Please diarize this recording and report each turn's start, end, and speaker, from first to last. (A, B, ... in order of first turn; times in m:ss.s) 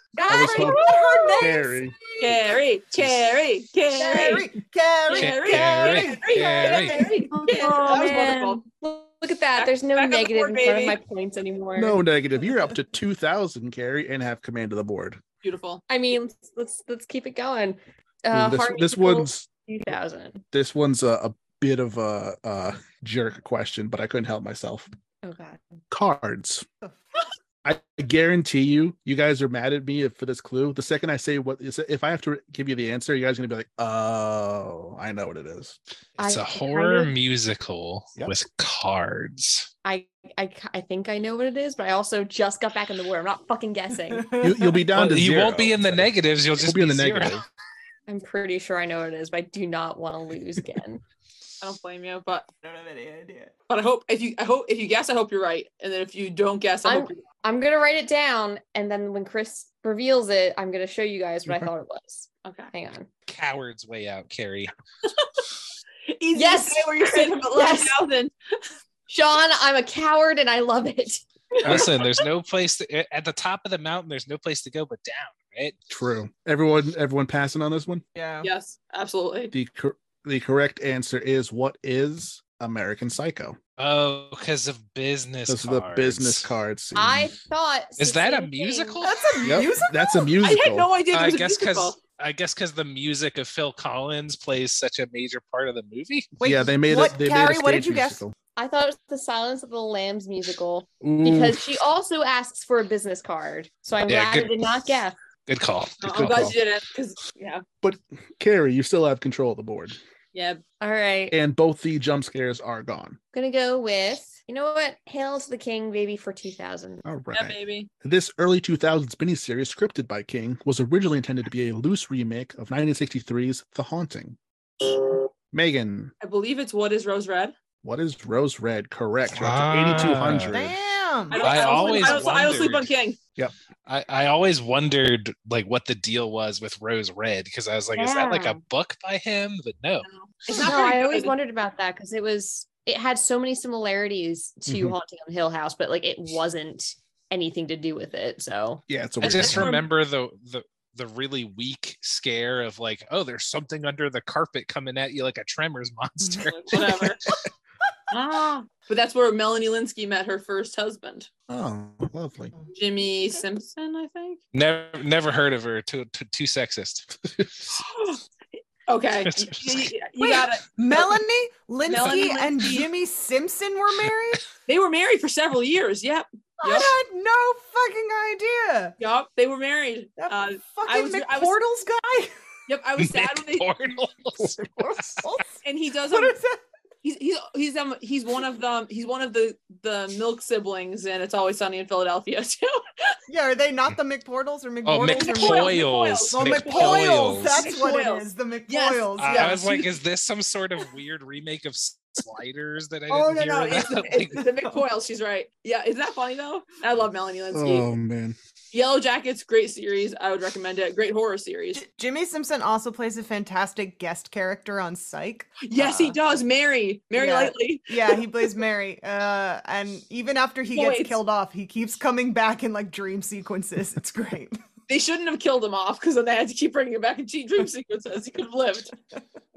0:00.2-0:01.5 A
0:00.2-0:02.5 B
0:00.3-0:00.8 C
0:01.4-0:01.9 C
0:02.2-0:04.5 D
0:04.0-0:08.3 B
0:04.0-0:04.4 A
0:05.1-0:08.6 D
0:05.1-0:07.0 E
0:07.0-0:12.0 A
0:09.6-0:11.0 D
0:11.7-0:15.2 C
0:15.4-0:15.8 D
0:15.9-0:20.4 A
0:18.3-0:19.5 C
0:20.5-0:24.9 C
0:25.2-0:25.6 A
0:25.9-0:26.6 C
0:27.6-0:35.8 C
0:36.2-0:39.7 E
0:36.2-0:37.1 A
0:39.8-0:44.4 A
0:44.0-0:44.8 B
0:44.4-0:47.4 C
0:44.9-0:47.4 E
0:48.1-0:51.0 A
0:51.6-0:52.5 D
0:52.6-0:53.5 B
0:53.7-0:57.2 D
0:56.8-1:03.1 A
1:02.4-1:02.7 D
1:03.3-1:04.7 E
1:06.1-1:08.3 D
1:06.3-1:08.0 A
1:09.1-1:11.2 A
1:11.6-1:12.2 D
1:11.6-1:11.9 C
1:11.6-1:15.7 E
1:15.9-1:18.0 C
1:18.1-1:18.5 B
1:18.4-1:19.5 D
1:19.5-1:23.6 C
1:23.8-1:26.5 E
1:25.5-1:27.3 C
1:26.9-1:29.1 A
1:28.0-1:29.2 E
1:29.0-1:30.4 B
1:29.4-1:30.9 C
1:30.4-1:32.0 D
1:31.1-1:36.3 E
1:36.4-1:38.2 B
1:36.4-1:38.3 C
1:38.6-1:45.2 A
1:41.0-1:41.6 C
1:44.0-1:44.6 E
1:45.5-1:46.5 E
1:46.0-1:47.6 D
1:46.0-1:46.6 C
1:47.8-1:50.0 C
1:50.3-1:50.6 D
1:50.8-1:51.3 A
1:51.3-1:53.2 C
1:53.3-1:57.0 A
1:57.0-2:04.4 C
1:57.3-1:57.9 D
2:05.5-2:06.1 C
2:06.2-2:07.5 D
2:07.8-2:10.7 C
2:09.3-2:10.6 E
2:10.5-2:12.3 B
2:11.3-2:12.9 E
2:11.3-2:13.2 D
2:13.9-2:20.1 E
2:17.9-2:18.6 A
2:20.0-2:21.3 D
2:20.5-2:28.8 A
2:24.7-2:25.0 C
2:28.9-2:29.7 C
2:29.2-2:37.2 E
2:29.4-2:29.8 D
2:36.4-2:37.2 D
2:38.1-2:41.3 D
2:41.5-2:42.5 C
2:42.7-2:44.4 D
2:44.5-2:47.2 E
2:47.7-2:48.2 D
2:48.9-2:51.2 D
2:49.2-2:49.9 E
2:50.3-2:54.4 B
2:51.8-2:52.9 D
2:54.7-2:56.9 D
2:56.6-2:58.9 B
2:59.0-3:01.6 D
3:00.2-3:02.3 B
3:02.7-3:03.7 D
3:03.0-3:05.3 E
3:04.8-3:05.5 B
3:05.6-3:06.4 D
3:06.1-3:06.6 B
3:07.0-3:13.2 D
3:13.3-3:15.8 B
3:14.8-3:17.6 E
3:15.1-3:19.9 D
3:16.3-3:19.6 B
3:19.2-3:24.4 E
3:23.1-3:27.9 D
3:27.5-3:28.4 C
3:28.7-3:31.8 D
3:31.7-3:36.2 B
3:35.6-3:38.2 D
3:37.2-3:44.6 B
3:40.7-3:41.2 D
3:44.9-3:48.9 D